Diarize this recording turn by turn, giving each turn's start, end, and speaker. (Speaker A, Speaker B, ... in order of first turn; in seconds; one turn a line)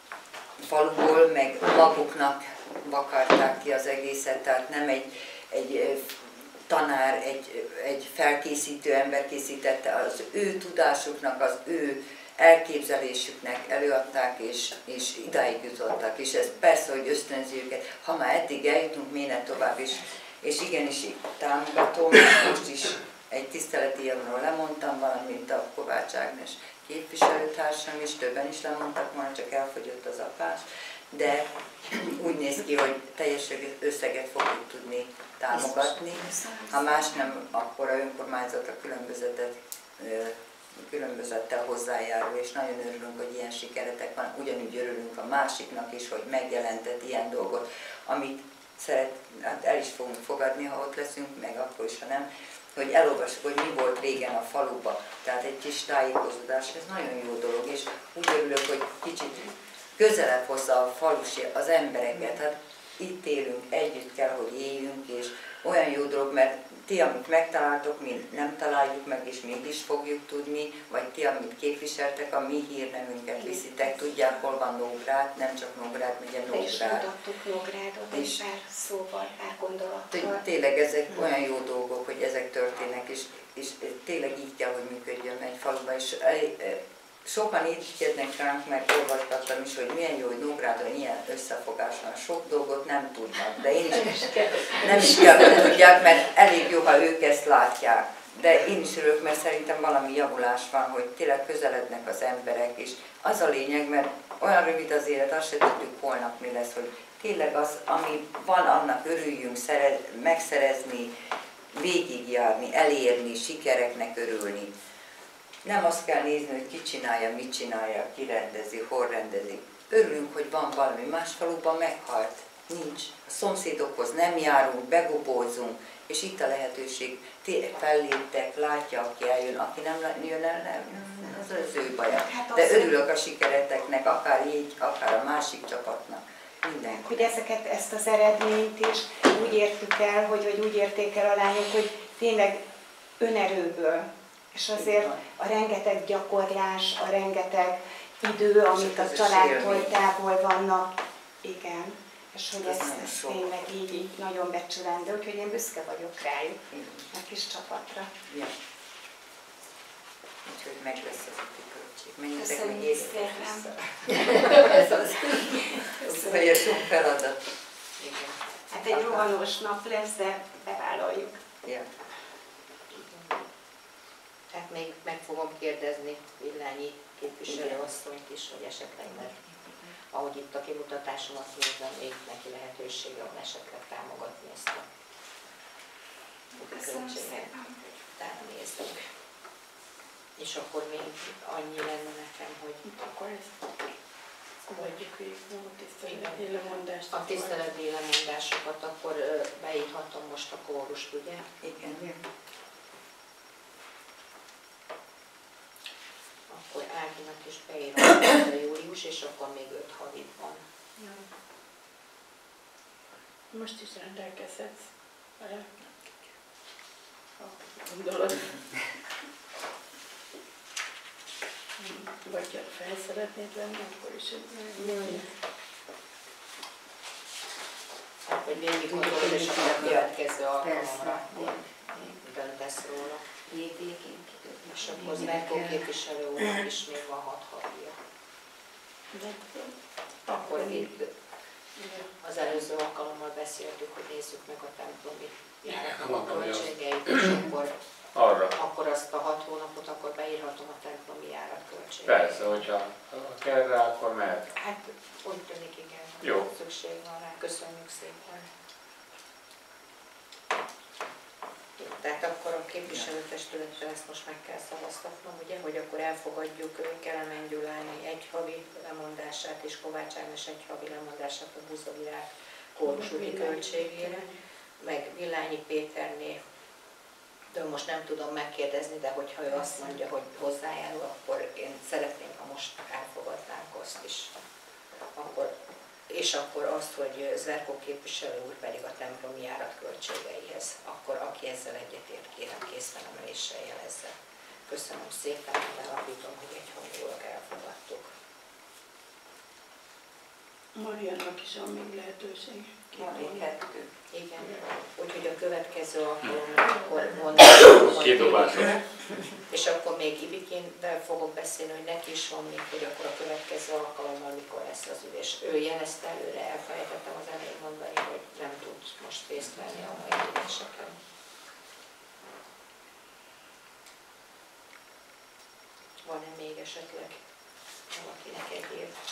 Speaker A: 0.6-77.1
Speaker B: 35.5-36.8
Speaker C: 73.4-73.8
Speaker C: 76.5-80.4
Speaker A: 78.1-78.4
Speaker A: 80.1-111.1
Speaker A: 111.7-114.7
Speaker A: 115.6-137.3
Speaker C: 132.1-132.9
Speaker C: 136.9-142.6
Speaker C: 143.2-158.1
Speaker A: 144.7-145.2
Speaker A: 148.7-149.9
Speaker A: 152.6-153.5
Speaker A: 156.7-157.1
Speaker A: 158.3-158.5
Speaker A: 160.4-163.7
Speaker C: 162.4-163.8
Speaker C: 164.6-166.5
Speaker A: 164.7-165.1
Speaker A: 166.0-167.4
Speaker D: 168.0-168.4
Speaker C: 168.7-171.4
Speaker A: 168.9-169.2
Speaker A: 171.6-171.9
Speaker D: 174.5-179.4
Speaker D: 180.1-184.9
Speaker C: 186.6-187.8
Speaker D: 186.8-187.5
Speaker D: 188.2-189.0
Speaker D: 190.4-192.9
Speaker E: 192.8-193.6
Speaker E: 194.7-197.6
Speaker D: 196.1-196.4
Speaker D: 197.1-201.4
Speaker A: 201.6-202.1
Speaker D: 206.5-210.6
Speaker E: 213.5-214.9
Speaker E: 215.4-215.7
Speaker E: 217.4-218.6
Speaker E: 221.8-225.2
Speaker B: 224.5-225.3
Speaker D: 228.3-231.6
Speaker B: 228.5-232.2
Speaker D: 232.2-233.2
Speaker B: 233.5-235.9
Speaker D: 234.7-238.0
Speaker E: 239.1-239.7
Speaker E: 240.3-240.9
Speaker D: 240.3-241.1
Speaker E: 241.8-242.1
Speaker D: 242.2-247.8
Speaker F: 245.7-247.3
Speaker F: 248.2-248.5
Speaker D: 248.5-252.7
Speaker F: 252.1-254.5
Speaker D: 254.6-258.5
Speaker F: 256.2-256.5
Speaker D: 261.8-274.2
Speaker E: 272.8-274.3
Speaker D: 274.8-276.4
Speaker D: 277.5-284.3
Speaker D: 285.2-285.5
Speaker D: 286.1-294.1
Speaker D: 294.7-298.1
Speaker E: 300.8-303.4
Speaker A: 302.9-303.9
Speaker D: 304.1-321.0
Speaker F: 307.8-308.8
Speaker D: 326.0-327.2
Speaker D: 327.9-328.9